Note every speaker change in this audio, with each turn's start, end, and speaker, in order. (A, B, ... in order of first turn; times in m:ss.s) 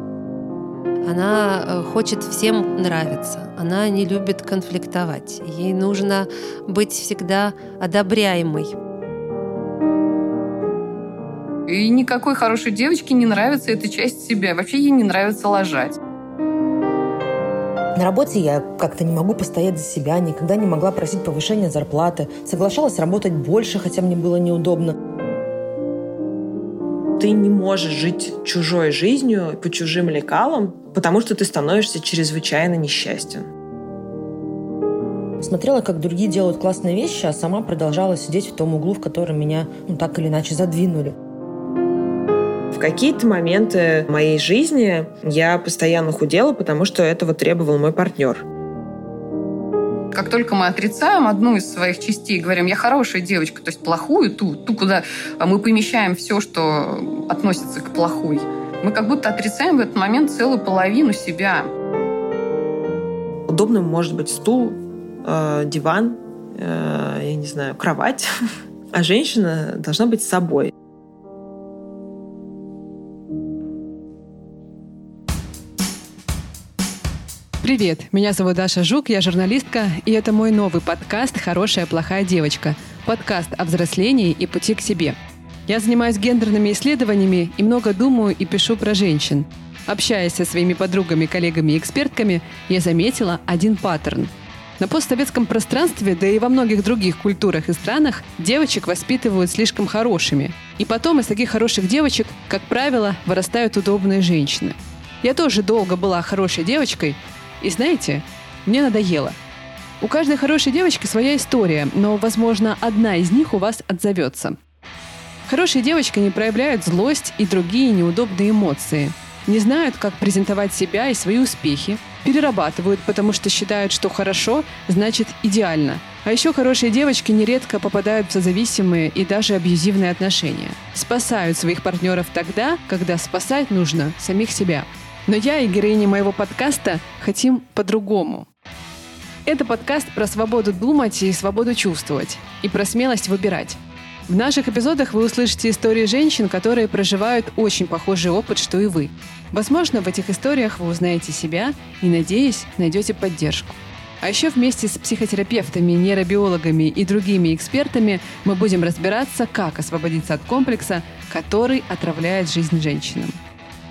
0:01.0-0:08.8 A
0:11.7-0:16.0 B
0:18.0-0:24.9 C
0:27.2-0:33.4 D
0:35.4-0:41.1 C
0:42.7-0:48.4 D
0:50.1-1:01.7 B
1:03.5-1:08.3 D
1:08.9-1:10.7 D
1:17.6-1:49.4 E
1:50.0-1:54.6 E
1:55.4-2:18.5 E
2:19.4-2:43.4 E